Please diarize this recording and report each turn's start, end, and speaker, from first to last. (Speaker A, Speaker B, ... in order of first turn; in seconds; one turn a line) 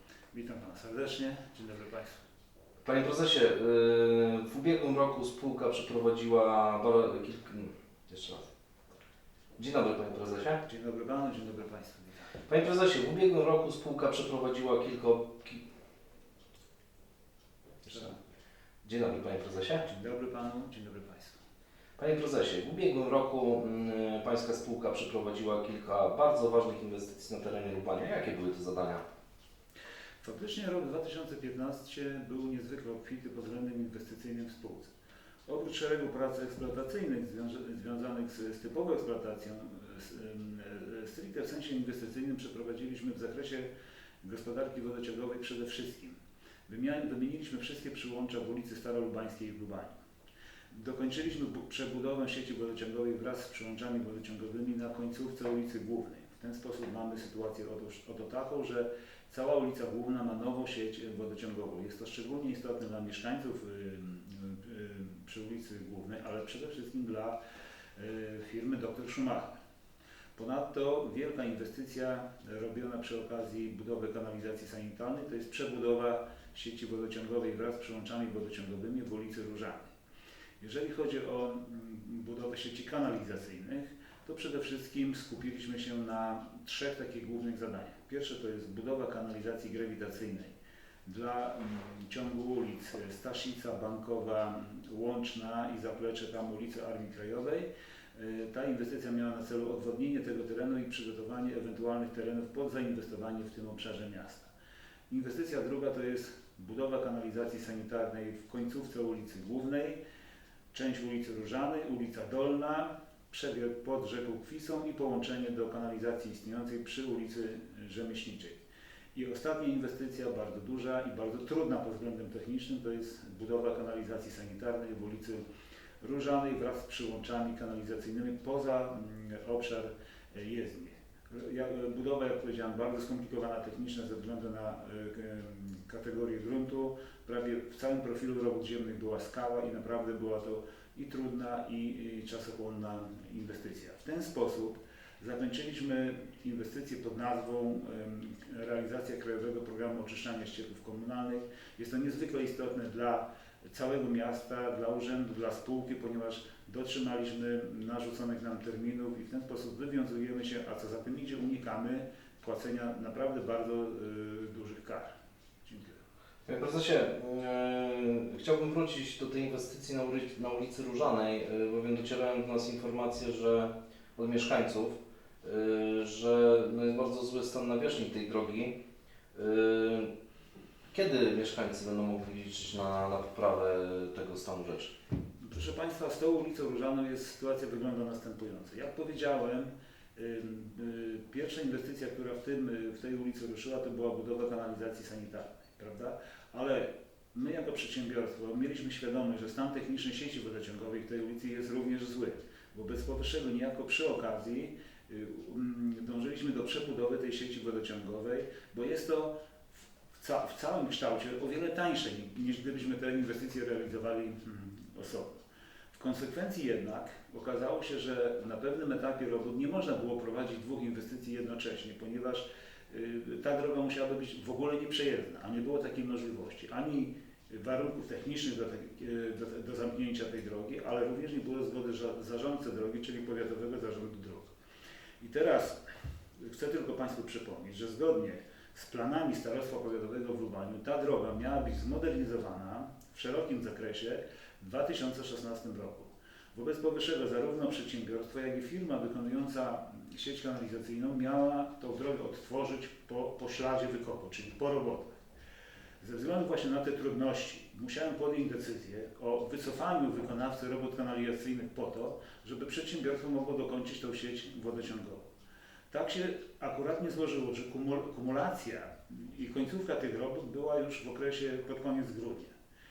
Speaker A: 0.3-2.2
Speaker B: 2.8-8.5
Speaker B: 9.6-10.6
Speaker A: 10.6-12.3
Speaker B: 12.5-15.6
Speaker B: 17.8-18.1
Speaker A: 17.9-18.1
Speaker B: 18.8-19.8
Speaker A: 19.8-21.4
Speaker B: 22.0-29.0
Speaker A: 30.2-34.9
Speaker A: 35.5-43.7
Speaker A: 44.2-50.0
Speaker A: 50.7-67.4
Speaker A: 68.0-69.5
Speaker A: 70.3-79.9
Speaker A: 80.6-90.5
Speaker A: 91.0-104.5
Speaker A: 105.1-110.0
Speaker A: 110.7-118.6
Speaker A: 119.1-125.4
Speaker A: 126.0-165.1
Speaker A: 165.6-166.0
Speaker B: 166.4-178.8
Speaker B: 179.3-180.1
Speaker B: 180.9-184.9
Speaker A: 185.4-209.3
Speaker A: 210.1-215.4
Speaker A: 215.9-234.5
Speaker A: 235.2-235.8
Speaker A: 236.4-255.2
Speaker A: 256.0-265.3
Speaker A: 265.9-272.5